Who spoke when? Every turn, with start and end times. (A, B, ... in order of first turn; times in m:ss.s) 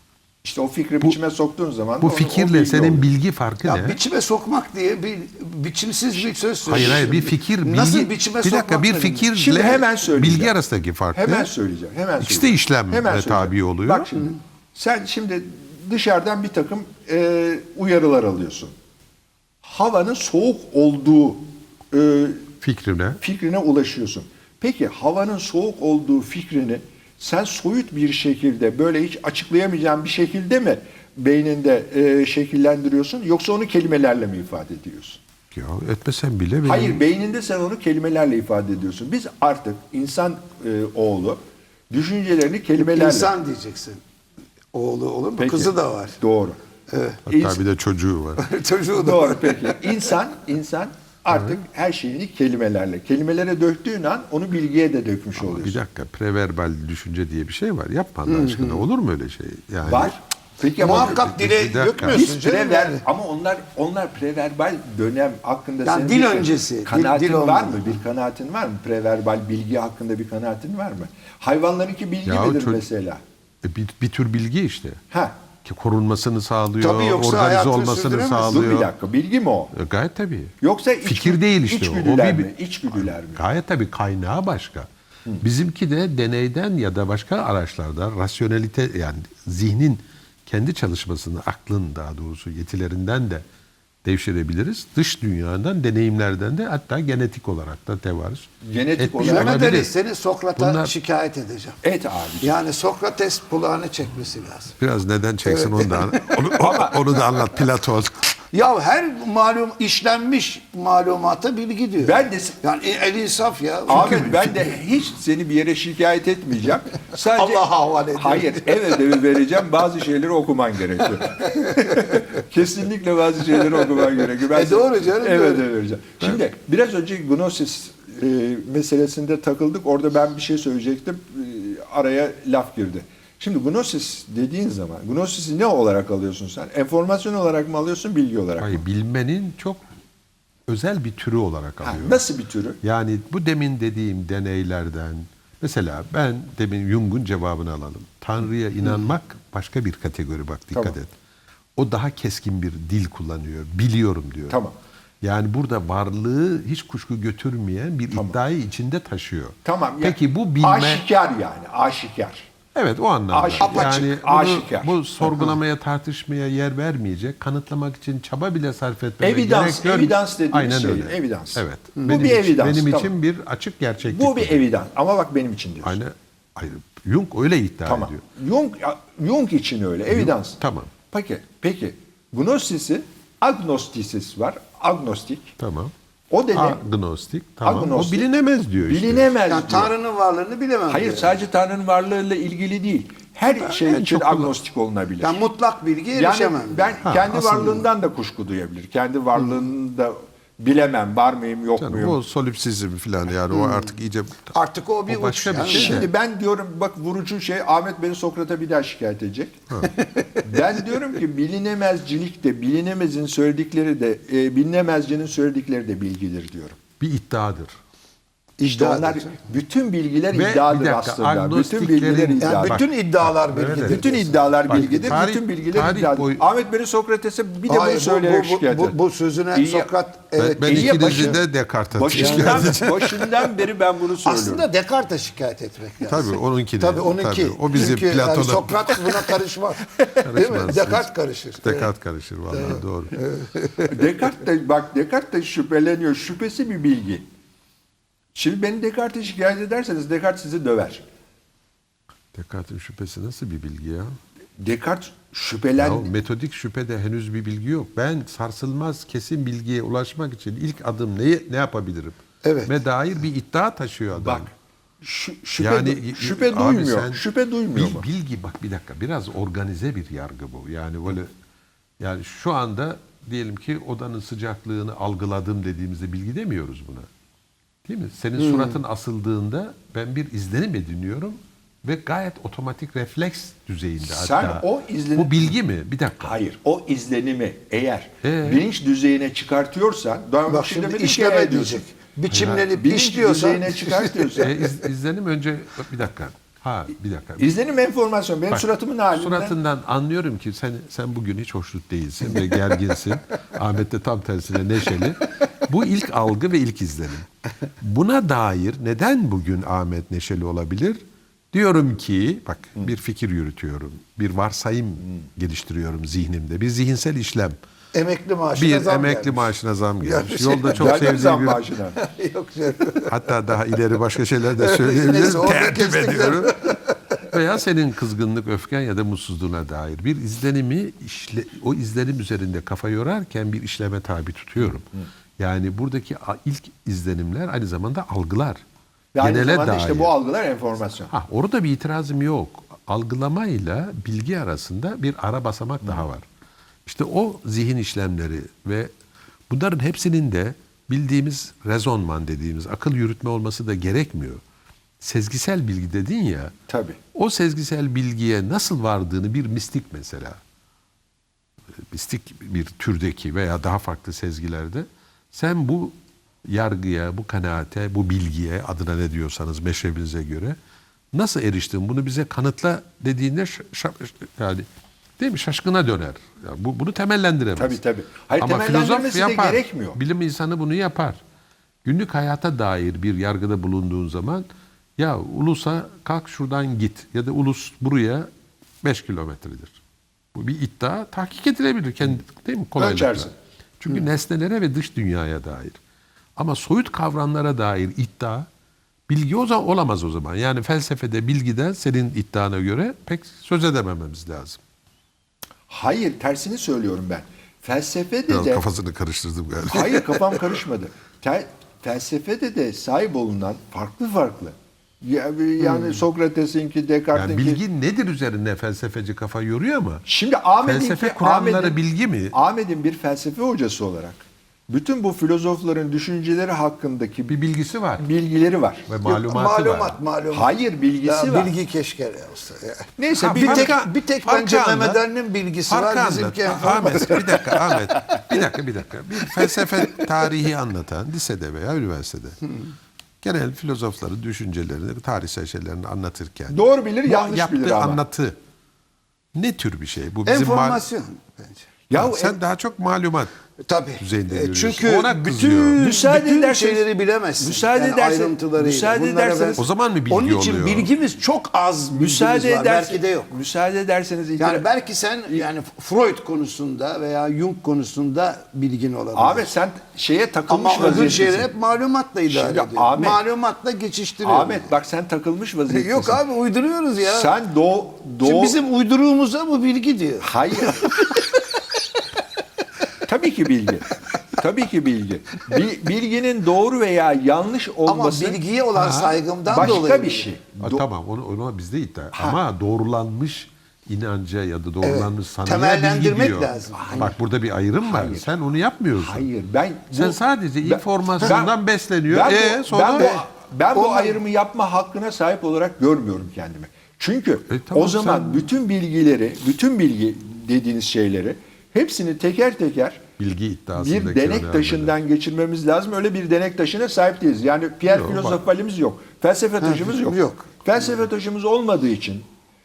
0:00.4-0:03.1 A
0:02.0-0:04.0 B
0:03.6-0:09.3 C
0:06.6-0:11.5 B
0:09.4-0:10.5 A
0:11.1-0:18.7 A
0:12.2-0:14.1 B
0:19.6-0:22.5 A
0:22.6-0:23.2 B
0:23.2-0:35.2 A
0:35.5-0:37.0 B
0:36.6-0:41.4 A
0:41.9-0:43.3 A
0:42.8-0:44.0 C
0:44.7-0:46.2 C
0:45.4-0:46.6 A
0:46.9-0:47.2 C
0:47.3-0:48.4 B
0:47.3-0:47.6 A
0:48.4-0:49.9 C
0:48.9-0:55.8 A
0:51.3-0:51.6 B
0:55.4-1:00.2 B
0:58.3-0:58.9 C
0:59.8-1:01.3 A
1:00.8-1:03.0 C
1:00.8-1:02.3 B
1:02.0-1:13.2 A
1:05.8-1:08.0 C
1:12.2-1:12.8 B
1:13.6-1:15.0 B
1:15.6-1:18.9 B
1:16.8-1:18.7 C
1:18.4-1:19.7 A
1:19.7-1:20.5 B
1:20.6-1:23.4 A
1:21.0-1:24.9 B
1:25.4-1:33.4 B
1:34.0-1:39.9 B
1:38.6-1:39.8 A
1:39.2-1:41.8 C
1:40.6-1:40.9 B
1:41.8-1:42.5 A
1:42.4-1:44.8 C
1:44.8-1:48.3 B
1:45.4-1:46.3 C
1:46.5-1:47.1 A
1:48.5-1:54.7 C
1:52.0-1:52.6 A
1:53.9-2:18.8 A
1:57.3-1:59.0 C
2:01.6-2:02.1 C
2:04.5-2:05.6 C
2:18.6-2:19.8 B
2:20.7-2:22.2 B
2:21.8-2:22.8 A
2:22.8-2:31.1 B
2:31.8-2:34.6 B
2:34.5-2:34.7 A
2:35.2-2:41.0 B
2:39.6-2:42.5 A
2:42.7-2:54.6 B
2:43.3-2:44.9 A
2:43.6-2:44.0 C
2:49.2-2:53.1 A
2:52.0-2:52.2 C
2:54.1-2:56.0 A
2:55.8-2:58.2 B
2:57.9-3:00.6 A
3:00.1-3:00.9 B
3:01.1-3:05.5 A
3:05.6-3:05.9 B
3:06.3-3:06.8 A
3:06.5-3:09.3 B
3:07.6-3:08.3 A
3:08.9-3:09.9 A
3:09.4-3:11.4 C
3:10.9-3:15.4 A
3:13.5-3:14.5 B
3:15.2-3:17.1 C
3:16.1-3:22.2 A
3:17.0-3:17.9 B
3:21.8-3:24.5 B
3:23.5-3:23.9 C
3:24.5-3:26.1 C
3:25.1-3:26.1 B
3:25.6-3:29.6 A
3:29.9-3:30.4 C
3:30.4-3:36.8 A
3:37.0-3:37.8 B
3:38.6-3:39.5 C
3:38.6-3:42.9 A
3:40.3-3:46.4 B
3:42.4-3:45.2 C
3:43.8-3:49.0 A
3:47.7-3:51.4 C
3:49.5-3:49.9 A
3:50.4-3:53.2 B
3:50.6-3:51.4 A
3:51.9-3:54.6 A
3:52.1-3:53.5 C
3:54.2-4:01.9 C
3:56.0-3:59.3 B
4:00.2-4:01.1 B
4:01.6-4:03.1 B
4:02.5-4:04.0 C
4:03.8-4:07.2 A
4:08.3-4:11.0 A
4:12.3-4:14.1 B
4:14.6-4:16.1 A
4:15.8-4:24.5 B
4:22.4-4:22.7 C
4:24.1-4:24.5 A
4:25.0-4:28.0 A
4:25.6-4:27.2 B
4:27.7-4:31.3 B
4:32.0-4:37.1 B
4:37.8-4:46.4 B
4:38.4-4:38.8 C
4:44.0-4:45.5 A
4:46.2-4:51.8 A
4:48.2-4:48.6 B
4:50.5-4:54.4 C
4:52.3-4:52.6 B
4:52.5-4:54.5 A
4:54.3-4:57.5 B
4:57.4-4:59.6 A
4:58.5-5:07.3 B
5:07.8-5:11.0 B
5:11.5-5:17.6 B
5:17.9-5:19.5 C
5:18.6-5:21.6 B
5:20.0-5:21.1 C
5:20.7-5:22.0 A
5:21.9-5:23.2 C
5:23.0-5:26.7 B
5:24.6-5:26.9 C
5:27.2-5:34.9 B
5:35.4-5:38.6 B
5:39.1-5:41.1 A
5:39.2-5:40.1 B
5:41.1-5:46.2 B
5:46.9-5:48.9 B
5:49.5-5:54.4 B
5:55.0-5:56.5 B
5:56.7-5:57.0 A
5:57.1-6:00.4 B
6:01.7-6:10.6 B
6:11.1-6:14.7 B
6:15.2-6:17.8 B
6:17.6-6:20.0 A
6:18.4-6:21.2 B
6:21.8-6:28.3 B
6:28.8-6:29.8 B
6:30.3-6:35.8 B
6:32.8-6:33.3 A
6:36.4-6:38.5 B
6:39.1-6:44.6 B
6:45.7-6:48.6 A
6:48.3-6:50.6 B
6:49.7-6:57.6 A
6:57.1-7:00.0 B
7:00.1-7:01.8 A
7:00.6-7:02.3 B
7:02.3-7:07.3 A
7:07.3-7:08.0 B
7:08.0-7:08.9 A
7:08.9-7:10.0 B
7:09.0-7:10.5 C
7:10.3-7:11.5 A
7:11.0-7:17.7 C
7:13.0-7:13.8 A
7:13.2-7:15.0 B
7:15.7-7:22.5 B
7:23.2-7:28.4 B
7:26.5-7:28.0 A
7:29.3-7:30.8 B
7:30.2-7:31.6 C
7:31.9-7:32.4 A
7:31.9-7:33.3 B
7:33.6-7:43.3 C
7:34.0-7:35.8 B
7:35.8-7:36.8 A
7:37.4-7:39.6 A
7:39.6-7:40.9 B
7:41.9-7:44.6 A
7:44.4-7:49.5 C
7:49.1-7:51.5 A
7:50.5-7:54.7 C
7:52.3-7:53.2 A
7:54.2-7:56.2 A
7:55.7-7:57.3 C
7:57.0-7:58.6 A
7:58.2-8:00.9 C
8:00.2-8:01.2 A
8:03.0-8:08.4 A
8:07.9-8:10.3 C
8:08.8-8:09.2 B
8:09.5-8:10.8 A
8:10.6-8:19.2 B
8:14.8-8:17.1 C
8:16.7-8:17.1 A
8:17.8-8:18.3 A
8:19.0-8:21.6 A
8:19.9-8:23.2 B
8:22.1-8:33.0 A
8:23.0-8:23.2 C
8:23.7-8:24.2 C
8:27.5-8:28.5 B
8:33.2-8:35.0 B
8:33.8-8:42.2 A
8:37.8-8:38.4 B
8:39.6-8:40.5 C